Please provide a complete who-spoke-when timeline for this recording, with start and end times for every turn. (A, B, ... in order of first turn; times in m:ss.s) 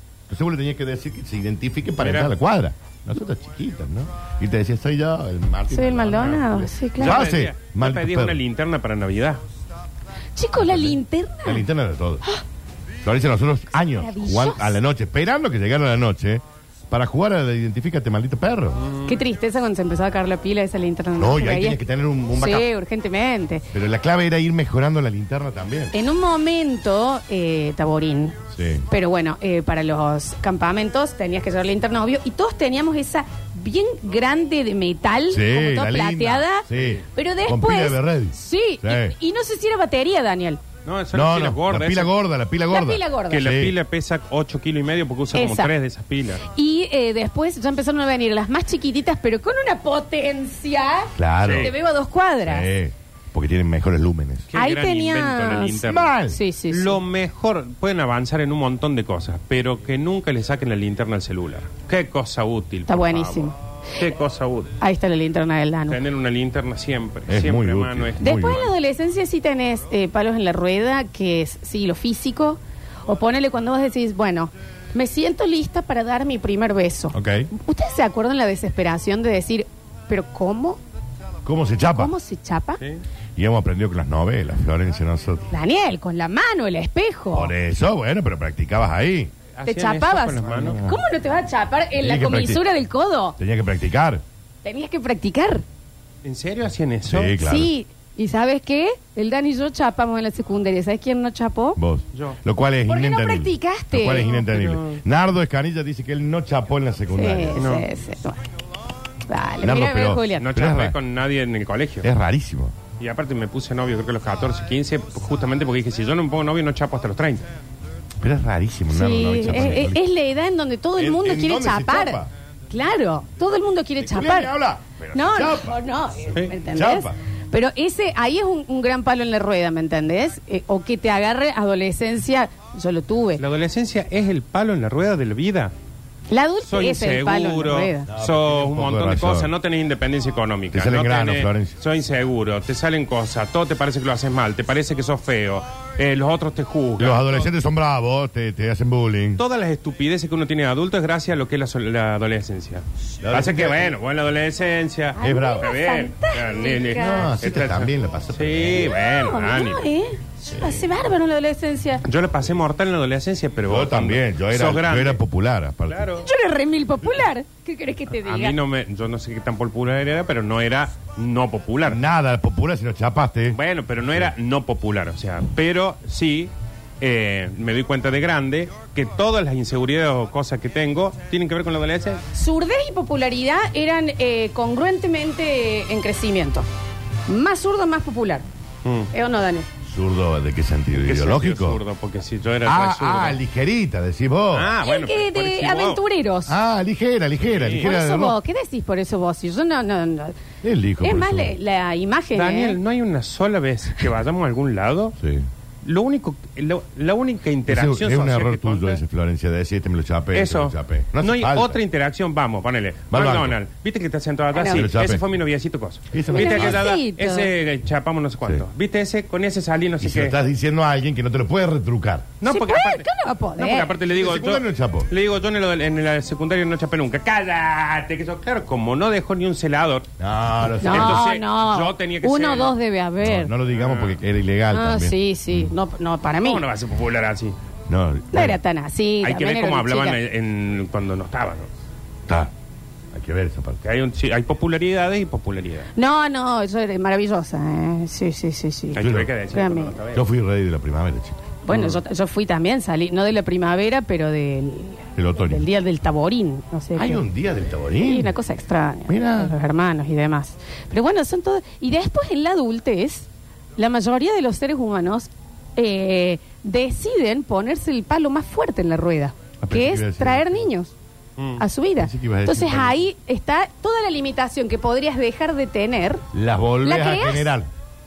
0:00.3-0:08.4 A
0:02.0-0:02.3 B
0:05.7-0:07.2 C
0:07.0-0:09.4 B
0:10.4-0:11.7 C
0:10.6-0:12.2 A
0:13.0-0:18.8 A
0:13.9-0:14.8 C
0:18.8-0:19.1 B
0:19.1-0:21.8 C
0:21.2-0:22.7 A
0:22.4-0:23.7 C
0:23.7-0:25.9 A
0:25.9-0:28.4 C
0:28.5-0:28.9 A
0:28.9-0:40.6 C
0:35.3-0:39.1 A
0:40.9-0:42.1 B
0:41.1-0:43.8 A
0:42.7-0:43.5 C
0:43.3-0:46.4 B
0:45.3-0:45.7 C
0:46.4-0:52.7 C
0:51.2-0:51.7 A
0:51.4-0:51.7 B
0:52.4-0:54.5 A
0:54.5-0:56.2 B
0:54.6-0:57.0 C
0:55.8-0:56.4 A
0:56.7-1:04.7 B
1:02.9-1:03.5 C
1:04.8-1:06.0 C
1:05.9-1:08.6 B
1:07.3-1:08.7 A
1:08.2-1:20.8 C
1:17.1-1:17.5 A
1:21.4-1:22.1 A
1:21.9-1:22.8 C
1:23.4-1:25.5 A
1:25.5-1:27.5 C
1:27.3-1:29.3 A
1:29.6-1:30.8 B
1:29.6-1:33.4 C
1:30.5-1:31.0 A
1:32.0-1:32.6 A
1:33.4-1:34.2 A
1:34.6-1:35.6 C
1:36.2-1:37.4 B
1:37.1-1:37.7 A
1:37.4-1:41.8 C
1:41.8-1:47.6 A
1:42.1-1:42.4 B
1:42.9-1:44.3 C
1:44.3-1:45.0 B
1:47.1-1:48.4 C
1:47.6-1:47.9 B
1:49.3-1:50.5 C
1:49.6-1:51.0 A
1:50.4-1:52.1 B
1:52.0-1:52.8 A
1:53.0-1:57.4 B
1:58.2-2:00.0 A
1:58.9-2:04.5 C
2:01.0-2:02.3 A
2:04.0-2:05.8 A
2:05.1-2:13.4 C
2:06.7-2:07.2 A
2:13.4-2:15.7 B
2:16.3-2:18.1 C
2:16.7-2:27.5 B
2:18.1-2:19.5 A
2:20.7-2:21.7 A
2:27.0-2:29.4 A
2:29.4-2:39.9 B
2:33.2-2:34.0 A
2:35.2-2:37.4 C
2:35.2-2:35.7 A
2:37.0-2:38.9 A
2:38.9-2:42.0 C
2:40.5-2:40.8 A
2:42.0-2:45.2 B
2:43.6-2:46.1 A
2:45.9-2:46.3 B
2:46.2-2:48.6 C
2:48.3-2:52.0 B
2:51.9-2:53.6 A
2:53.5-3:02.2 B
3:02.3-3:06.7 C
3:07.3-3:08.5 C
3:08.8-3:09.1 B
3:09.1-3:09.7 C
3:09.9-3:11.8 A
3:11.1-3:13.4 B
3:12.6-3:14.7 A
3:14.5-3:16.0 B
3:14.8-3:16.6 C
3:16.5-3:18.4 A
3:17.4-3:17.9 B
3:17.8-3:20.4 C
3:20.6-3:21.6 A
3:21.0-3:22.8 C
3:22.4-3:25.2 B
3:25.2-3:25.5 A
3:25.8-3:29.0 B
3:27.7-3:31.8 A
3:30.3-3:40.4 B
3:33.1-3:33.6 A
3:34.5-3:34.9 C
3:34.7-3:35.2 A
3:36.1-3:36.9 A
3:36.3-3:37.5 C
3:40.0-3:42.3 A
3:42.4-3:50.1 B
3:42.4-3:43.9 C
3:44.1-3:45.1 A
3:50.2-3:51.2 A
3:50.8-3:53.5 C
3:50.8-3:52.8 B
3:53.2-3:55.8 A
3:53.7-3:54.2 B
3:54.7-3:56.6 C
3:56.4-3:57.6 B
3:57.9-3:58.6 A
3:58.3-4:00.2 C
3:59.2-4:01.7 B
4:03.1-4:03.8 A
4:03.8-4:05.9 B
4:06.0-4:10.0 C
4:08.9-4:10.2 B
4:09.0-4:09.3 A
4:10.1-4:11.4 A
4:11.7-4:17.2 C
4:11.7-4:12.0 B
4:15.2-4:15.6 A
4:17.0-4:18.3 A
4:18.1-4:31.0 C
4:19.1-4:19.6 A
4:29.6-4:30.6 A
4:31.4-4:31.6 B
4:31.6-4:36.2 C
4:32.0-4:33.0 A
4:36.3-4:37.7 A
4:36.8-4:37.6 C